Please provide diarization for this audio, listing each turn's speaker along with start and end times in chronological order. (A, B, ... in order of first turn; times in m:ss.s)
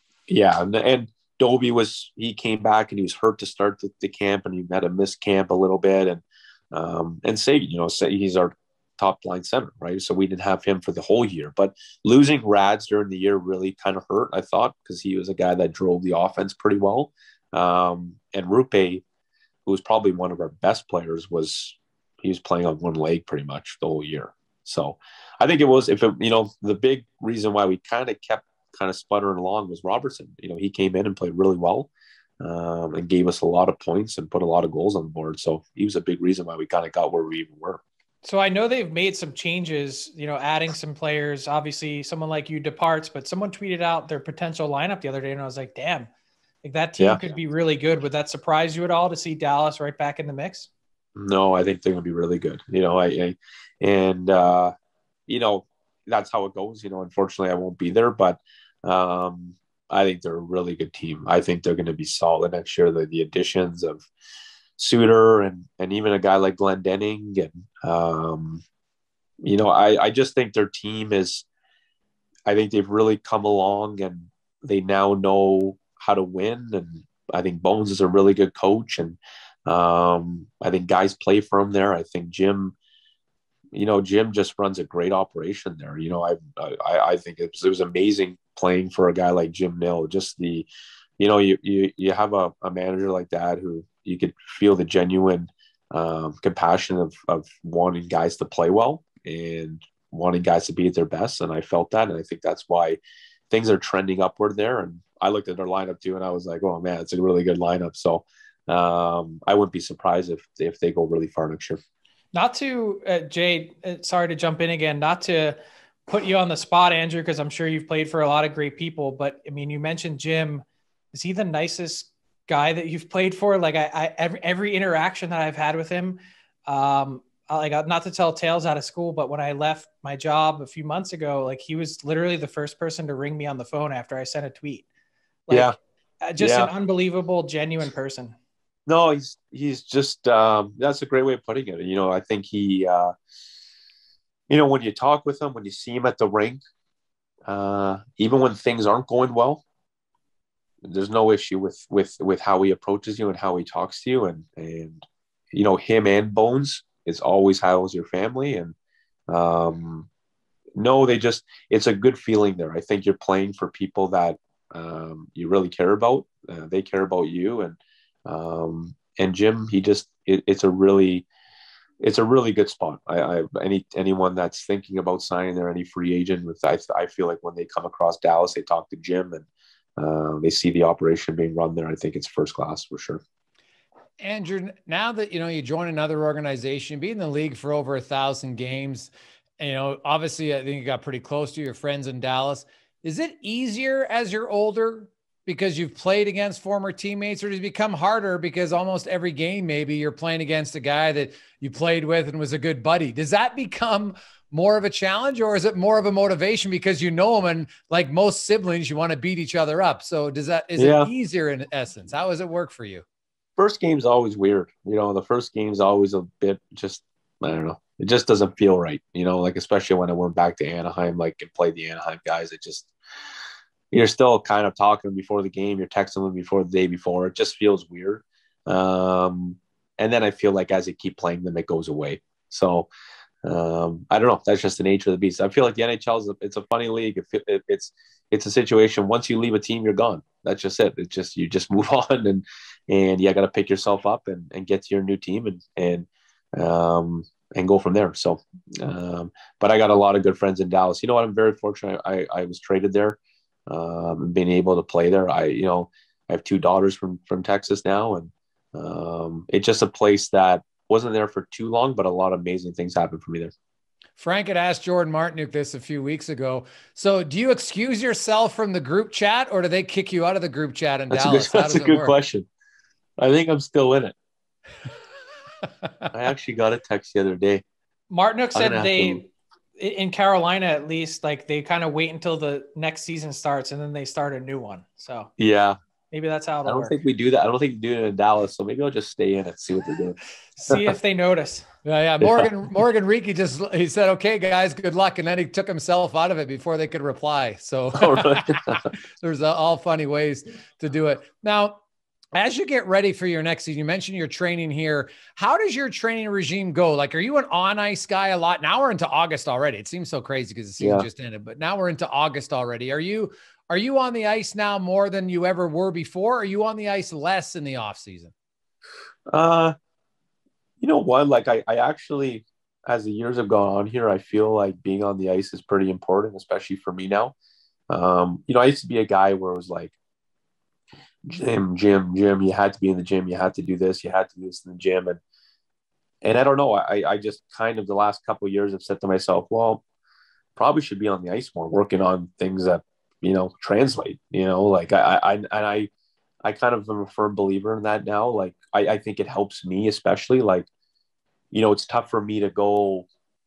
0:00.3-0:19.0 A
0:19.6-0:37.8 A
0:38.2-0:46.1 B
0:46.6-0:50.7 B
0:47.0-0:47.2 A
0:51.2-0:54.7 A
0:55.3-1:04.0 A
1:04.8-1:08.6 A
1:09.4-1:11.4 A
1:12.5-1:22.8 A
1:23.7-1:30.7 A
1:31.2-1:43.0 A
1:43.5-1:51.8 A
1:52.3-2:14.9 B
2:15.5-2:18.4 B
2:16.4-2:16.7 A
2:18.9-2:23.1 A
2:24.5-2:26.6 A
2:27.5-2:29.6 A
2:30.8-2:38.7 A
2:39.3-2:40.1 A
2:40.8-2:51.3 A
2:52.0-2:59.4 A
3:00.0-3:03.2 A
3:04.2-3:33.0 C
3:30.8-3:31.1 A
3:33.6-3:42.9 A
3:43.9-3:52.9 A
3:53.4-4:23.5 A
4:24.2-4:32.1 C
4:31.1-4:32.5 A
4:33.2-4:34.1 A
4:36.1-4:37.6 A
4:38.1-4:45.3 B
4:38.5-4:39.2 A
4:45.4-4:45.8 A
4:46.1-4:47.0 B
4:46.6-4:50.9 A
4:50.6-4:51.6 B
4:51.8-5:01.8 C
4:52.2-4:52.5 A
4:58.0-4:58.8 A
5:02.3-5:18.3 C
5:10.8-5:11.1 A
5:19.3-5:19.7 A
5:20.8-5:27.3 A
5:27.9-5:29.9 A
5:31.2-5:35.2 A
5:36.2-5:39.8 A
5:40.6-5:45.9 A
5:46.4-5:50.7 A
5:51.5-5:53.1 A